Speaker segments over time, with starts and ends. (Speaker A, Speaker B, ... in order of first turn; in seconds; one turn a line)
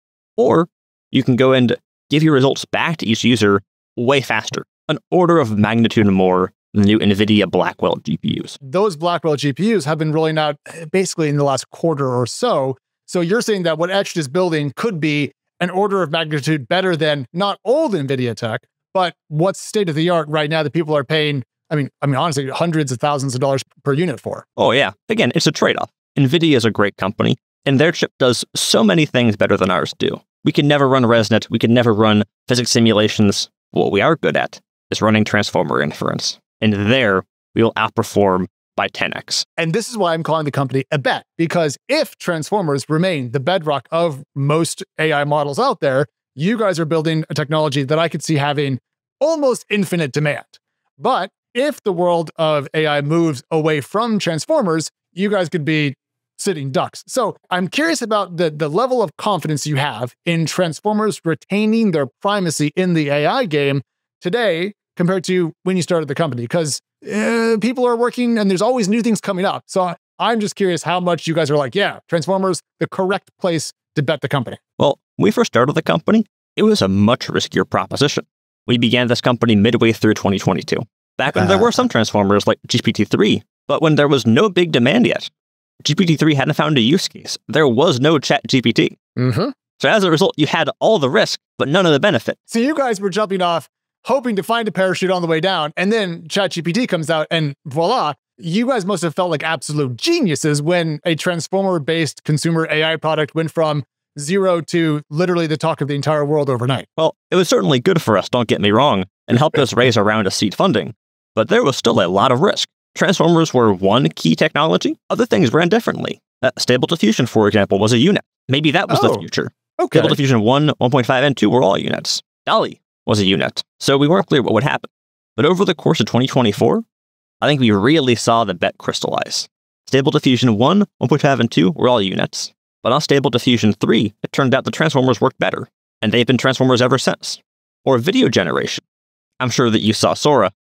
Speaker A: 0.4-8.6
Speaker B: 8.6-24.5
Speaker A: 24.6-39.5
Speaker B: 39.6-74.6
Speaker A: 74.8-85.3
Speaker B: 81.4-81.7
Speaker A: 85.8-89.0
Speaker B: 89.2-89.5
Speaker A: 89.8-92.4
Speaker B: 92.5-106.9
Speaker A: 107.0-126.8
Speaker B: 118.9-119.2
Speaker B: 119.8-120.2
Speaker A: 127.4-138.8
Speaker A: 139.4-140.5